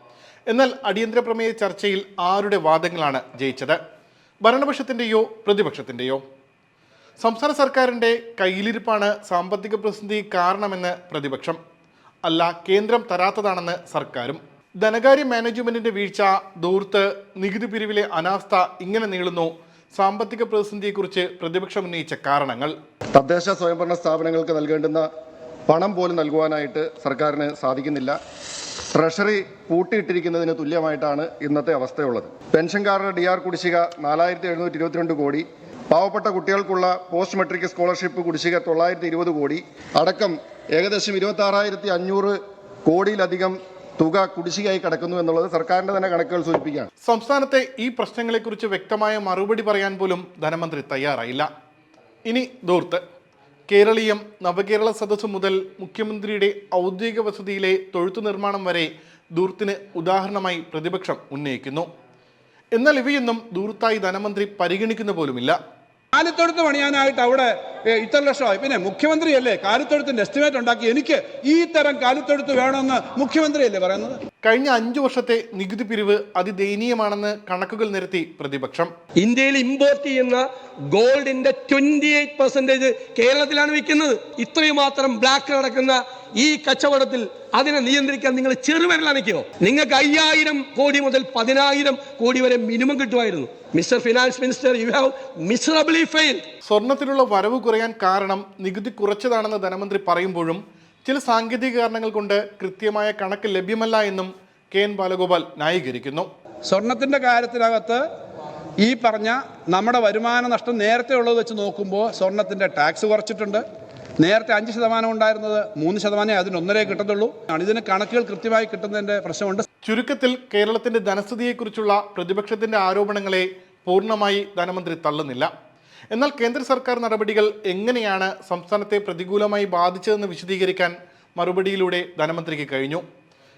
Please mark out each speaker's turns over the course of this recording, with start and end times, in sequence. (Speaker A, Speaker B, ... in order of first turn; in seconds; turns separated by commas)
Speaker A: 0.5-3.8, Speaker A: 4.4-6.2, Speaker A: 7.2-11.6, Speaker A: 12.2-22.7, Speaker B: 23.1-25.1, Speaker B: 25.7-28.2, Speaker B: 28.9-46.9, Speaker A: 47.0-51.5, Speaker A: 52.2-53.0, Speaker A: 53.7-61.9, Speaker A: 62.7-65.6, Speaker C: 66.1-74.2, Speaker A: 74.4-78.9, Speaker D: 79.2-96.5, Speaker A: 96.7-106.3, Speaker C: 106.6-108.0, Speaker C: 108.8-113.6, Speaker C: 114.2-119.7, Speaker A: 119.8-125.5, Speaker A: 126.1-133.0